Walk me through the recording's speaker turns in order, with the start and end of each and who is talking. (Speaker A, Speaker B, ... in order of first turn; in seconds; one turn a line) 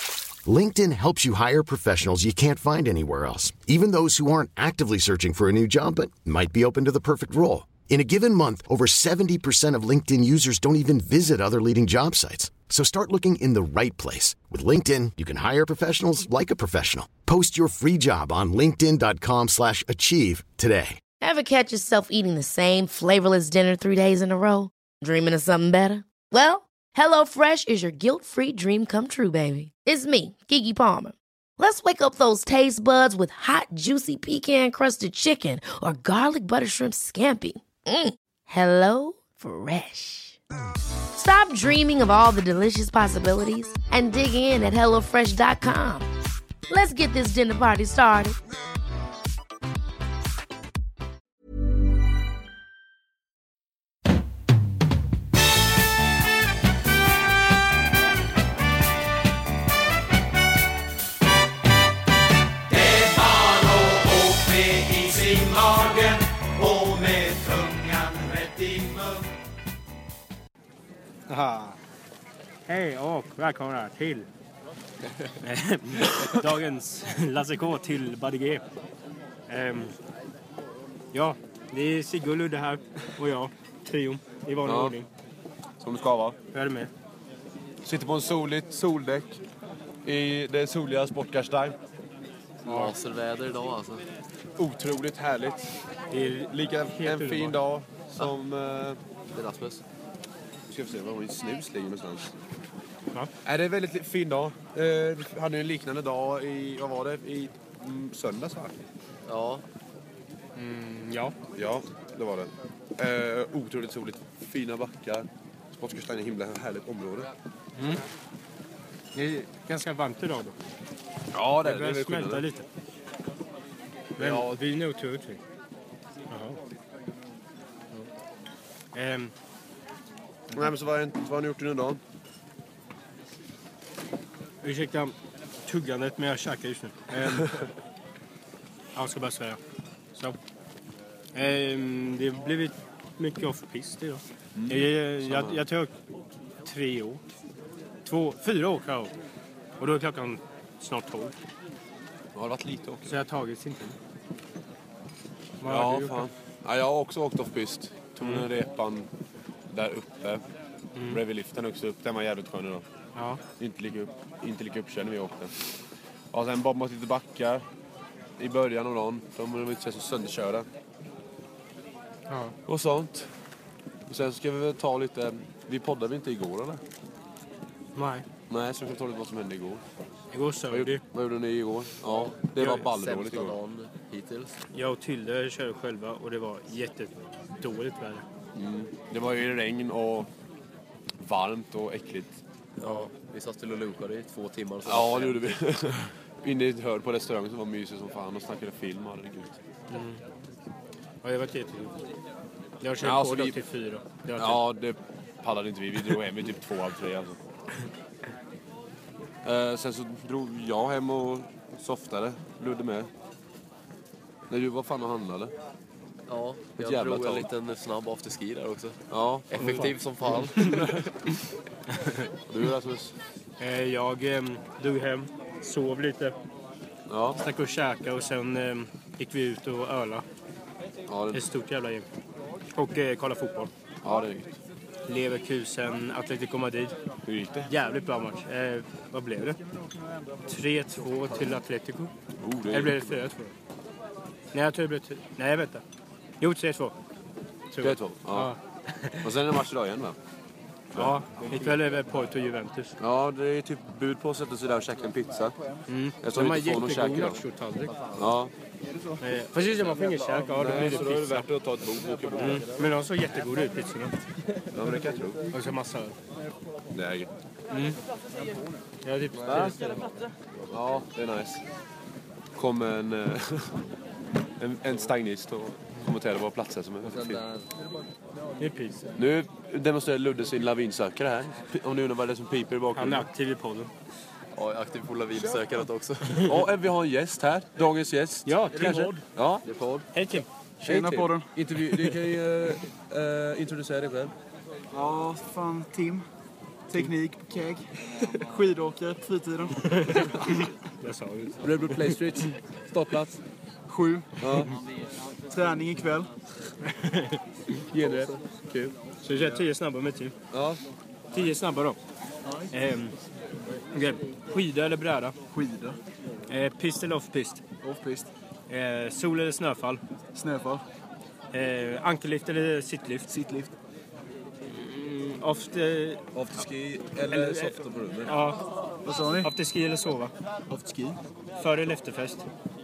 Speaker A: 0.4-21.0
Speaker B: 21.2-40.4
Speaker B: 41.1-46.1
Speaker B: 46.7-48.4
Speaker C: 62.7-69.3
Speaker D: 71.3-71.8
Speaker D: 72.7-74.3
Speaker D: 75.4-78.7
Speaker D: 79.5-80.0
Speaker D: 81.1-85.1
Speaker E: 84.7-85.0
Speaker E: 85.8-86.4
Speaker D: 86.5-86.9
Speaker E: 87.8-89.4
Speaker E: 90.0-91.8
Speaker F: 92.7-94.1
Speaker D: 92.7-93.0
Speaker E: 94.6-95.7
Speaker D: 96.1-97.6
Speaker E: 96.5-99.0
Speaker F: 99.3-99.8
Speaker E: 100.7-102.3
Speaker E: 103.4-108.8
Speaker F: 109.2-109.7
Speaker D: 110.6-111.4
Speaker E: 111.5-117.3
Speaker D: 117.8-118.0
Speaker D: 119.1-120.5
Speaker E: 121.3-122.5
Speaker D: 121.6-122.7
Speaker E: 124.2-124.5
Speaker D: 124.2-125.4
Speaker D: 126.3-126.6
Speaker D: 128.9-129.3
Speaker E: 130.5-132.0
Speaker D: 134.6-137.6
Speaker D: 138.9-139.6
Speaker D: 141.3-145.9
Speaker E: 144.6-145.7
Speaker D: 146.7-147.2
Speaker D: 148.0-149.1
Speaker D: 149.8-151.4
Speaker E: 152.3-153.2
Speaker D: 153.1-154.0
Speaker D: 155.6-156.3
Speaker E: 155.6-159.1
Speaker D: 158.2-158.5
Speaker E: 159.7-160.4
Speaker D: 161.0-161.2
Speaker E: 161.1-162.9
Speaker D: 163.2-163.4
Speaker E: 163.6-165.6
Speaker E: 166.3-167.7
Speaker E: 168.4-170.7
Speaker D: 172.3-172.6
Speaker E: 172.7-173.3
Speaker E: 174.1-176.8
Speaker D: 177.9-178.3
Speaker E: 178.5-179.8
Speaker D: 180.3-181.0
Speaker E: 180.7-183.6
Speaker D: 182.6-182.9
Speaker F: 182.9-184.6
Speaker D: 184.7-188.3
Speaker E: 188.6-190.3
Speaker E: 191.2-192.4
Speaker F: 192.8-195.6
Speaker D: 192.8-193.1
Speaker E: 194.8-199.6
Speaker D: 199.9-200.2
Speaker D: 201.2-202.0
Speaker D: 202.8-204.7
Speaker E: 203.0-203.6
Speaker E: 204.4-207.4
Speaker E: 209.4-213.1
Speaker E: 214.5-215.5
Speaker F: 216.3-221.1
Speaker E: 216.8-217.5
Speaker E: 219.1-221.1
Speaker D: 219.6-219.8
Speaker E: 222.5-223.2
Speaker D: 223.6-226.4
Speaker E: 227.1-227.4
Speaker D: 227.3-230.2
Speaker E: 231.1-231.5
Speaker D: 231.3-232.1
Speaker D: 232.8-233.7
Speaker E: 234.0-234.5
Speaker D: 235.1-237.0
Speaker E: 237.3-237.7
Speaker D: 237.7-239.6
Speaker G: 239.4-241.6
Speaker D: 240.5-242.1
Speaker E: 242.4-243.3
Speaker D: 242.7-243.5
Speaker D: 244.5-245.8
Speaker D: 246.4-247.0
Speaker D: 247.7-249.4
Speaker E: 247.8-248.6
Speaker E: 249.2-250.2
Speaker E: 250.9-251.8
Speaker D: 250.9-253.0
Speaker E: 253.0-255.6
Speaker G: 254.7-255.9
Speaker D: 255.9-258.0
Speaker E: 256.2-257.4
Speaker F: 257.9-258.4
Speaker E: 258.1-258.5
Speaker G: 258.8-260.0
Speaker D: 259.2-261.5
Speaker E: 260.1-262.9
Speaker G: 262.0-262.4
Speaker D: 262.3-264.2
Speaker E: 264.7-265.5
Speaker G: 264.8-265.8
Speaker D: 265.5-266.2
Speaker E: 266.9-267.3
Speaker D: 267.7-268.0
Speaker G: 268.3-268.9
Speaker D: 269.0-270.1
Speaker E: 269.4-269.9
Speaker E: 270.7-271.6
Speaker E: 272.6-273.8
Speaker E: 274.6-277.5
Speaker F: 277.1-277.6
Speaker G: 278.4-279.2
Speaker D: 278.6-279.1
Speaker E: 279.2-283.3
Speaker D: 282.9-283.9
Speaker F: 284.5-286.5
Speaker G: 285.3-285.6
Speaker D: 286.3-286.6
Speaker E: 286.4-289.6
Speaker D: 288.5-289.2
Speaker G: 288.7-289.2
Speaker F: 289.6-290.1
Speaker D: 290.1-290.5
Speaker E: 290.8-294.3
Speaker G: 290.8-291.5
Speaker D: 291.8-292.3
Speaker G: 294.9-296.3
Speaker G: 296.9-300.3
Speaker D: 299.7-302.5
Speaker E: 300.2-300.6
Speaker E: 301.6-303.4
Speaker G: 303.9-304.7
Speaker E: 304.4-304.8
Speaker G: 305.5-306.3
Speaker D: 306.9-307.4
Speaker E: 307.9-309.0
Speaker D: 308.0-308.3
Speaker G: 308.0-308.3
Speaker D: 309.2-310.4
Speaker E: 310.5-310.8
Speaker D: 311.3-312.0
Speaker G: 312.4-312.8
Speaker D: 312.7-313.2
Speaker D: 313.9-315.4
Speaker G: 315.5-316.0
Speaker D: 316.5-317.6
Speaker G: 317.8-318.3
Speaker D: 318.7-320.0
Speaker G: 320.3-320.8
Speaker D: 321.5-323.3
Speaker G: 323.3-323.7
Speaker D: 324.6-326.2
Speaker E: 326.3-328.4
Speaker D: 327.2-330.3
Speaker G: 329.0-329.5
Speaker G: 330.7-331.2
Speaker D: 331.6-332.5